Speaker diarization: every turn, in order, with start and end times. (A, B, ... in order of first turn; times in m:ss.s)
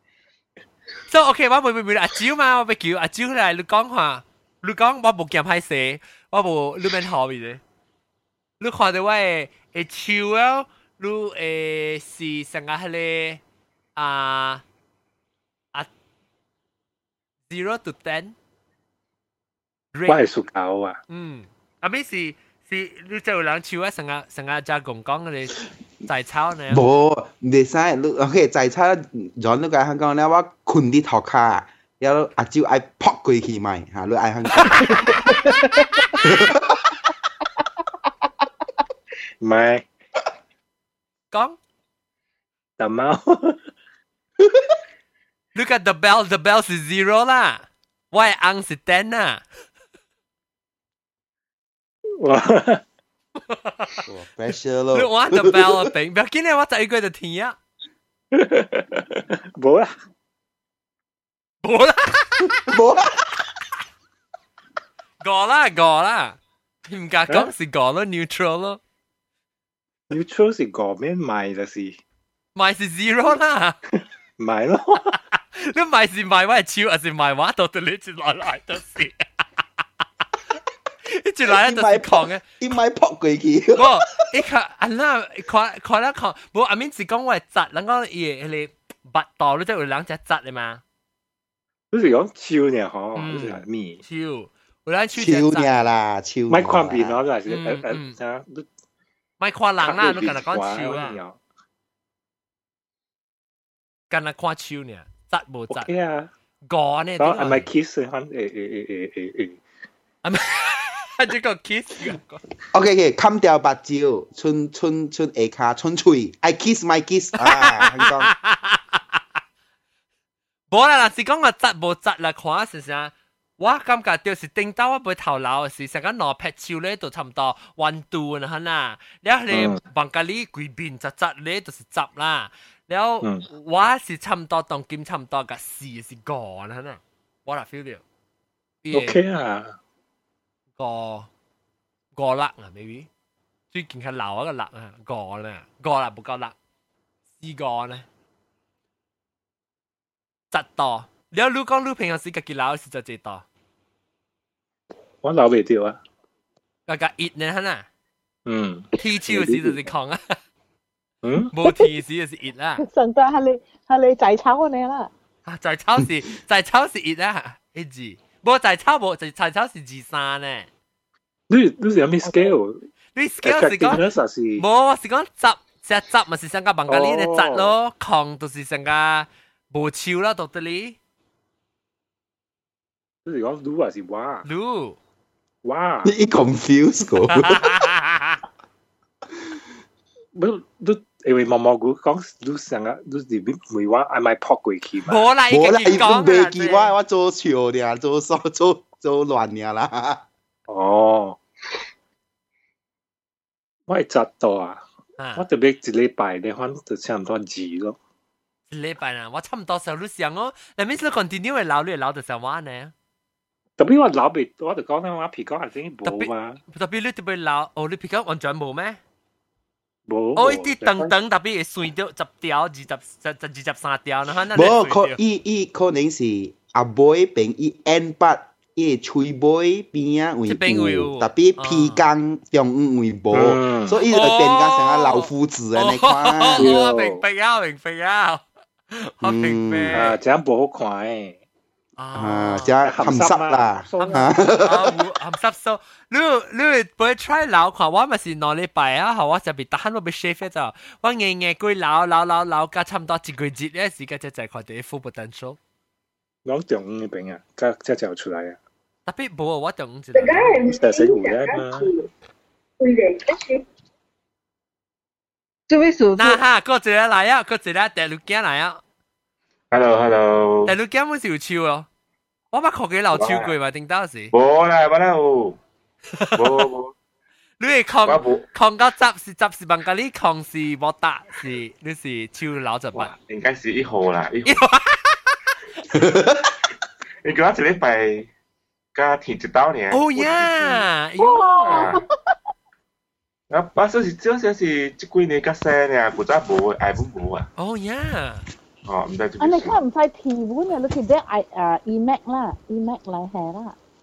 0:01.1-0:07.6 A
0:08.6-0:13.4 A
0:14.0-0:14.6 A
0:17.5-0:18.3 A
0:19.9-0:20.2 A
0:20.0-0:21.0 B
0:21.1-0:26.8 A
0:26.7-0:35.0 C
0:34.9-0:35.9 D
0:36.2-0:36.6 C
0:39.4-0:39.8 B
0:41.3-0:41.6 A
0:42.8-0:43.6 B
0:45.5-0:49.4 A
0:52.2-0:52.8 B
0:53.5-0:54.0 A
0:54.1-0:55.9 C
0:54.9-0:57.5 A
0:58.3-0:59.9 B
1:01.6-1:02.6 A
1:02.7-1:03.2 C
1:05.2-1:08.8 A
1:10.1-1:12.0 B
1:12.6-1:13.8 A
1:14.4-1:15.2 B
1:15.4-1:19.2 A
1:21.1-1:22.4 A
1:21.5-1:24.1 C
1:23.8-1:30.8 A
1:31.9-1:34.0 B
1:33.1-1:35.8 A
1:35.2-1:37.1 C
1:36.5-1:38.7 B
1:37.5-1:38.2 A
1:39.4-1:41.2 A
1:39.8-1:41.4 B
1:44.1-1:45.9 A
1:45.7-1:46.3 B
1:46.6-1:47.7 A
1:47.2-1:49.6 B
1:50.2-1:52.4 A
1:52.7-1:58.3 C
1:57.4-1:59.2 A
2:00.7-2:18.0 A
2:09.5-2:09.8 B
2:13.2-2:13.5 B
2:18.8-2:19.2 A
2:18.9-2:19.8 B
2:20.8-2:21.3 A
2:22.1-2:23.1 A
2:23.7-2:26.5 A
2:27.4-2:28.0 A
2:30.5-2:33.4 A
2:35.2-2:36.0 B
2:36.9-2:37.8 A
2:38.4-2:39.8 B
2:39.0-2:40.4 A
2:41.2-2:41.5 B
2:41.5-2:42.8 A
2:42.8-2:45.1 E
2:45.4-2:50.7 A
2:51.5-2:52.8 B
2:53.1-2:54.0 A
2:53.4-2:54.6 B
2:54.6-3:01.0 A
2:56.9-2:57.7 B
3:03.2-3:04.4 B
3:04.4-3:05.0 A
3:05.6-3:06.1 B
3:06.0-3:07.9 C
3:07.4-3:08.4 A
3:10.3-3:15.3 B
3:15.0-3:16.9 A
3:15.5-3:20.2 C
3:20.7-3:21.4 B
3:23.9-3:24.8 B
3:25.2-3:25.4 A
3:25.3-3:28.0 B
3:28.7-3:32.9 A
3:33.8-3:36.6 B
3:36.0-3:39.0 A
3:40.1-3:41.1 B
3:40.3-3:45.2 A
3:44.5-3:56.7 C
3:50.5-3:52.0 A
3:53.3-3:54.0 B
3:54.1-4:00.2 A
3:56.6-3:57.2 B
3:59.2-4:00.1 C
3:59.9-4:01.4 B
4:02.0-4:03.2 A
4:02.1-4:04.9 C
4:02.8-4:04.4 B
4:04.0-4:15.6 A
4:16.4-4:18.6 B
4:19.0-4:20.6 A
4:20.1-4:21.6 D
4:20.6-4:21.9 B
4:22.8-4:23.6 D
4:25.7-4:26.4 D
4:26.2-4:28.8 A
4:29.7-4:30.7 F
4:30.7-4:31.9 A
4:32.5-4:34.3 A
4:33.1-4:33.5 F
4:34.3-4:35.6 F
4:36.1-4:36.7 A
4:36.4-4:36.9 F
4:37.6-4:43.1 A
4:38.0-4:38.4 F
4:42.9-4:44.6 F
4:44.4-4:45.3 A
4:45.9-4:46.4 C
4:47.2-4:48.3 F
4:48.9-4:50.8 F
4:49.9-4:51.8 A
4:51.2-4:52.0 E
4:51.6-4:52.0 F
4:53.5-4:57.5 F
4:57.6-4:58.4 A
4:58.8-4:59.8 F
4:59.4-5:03.8 E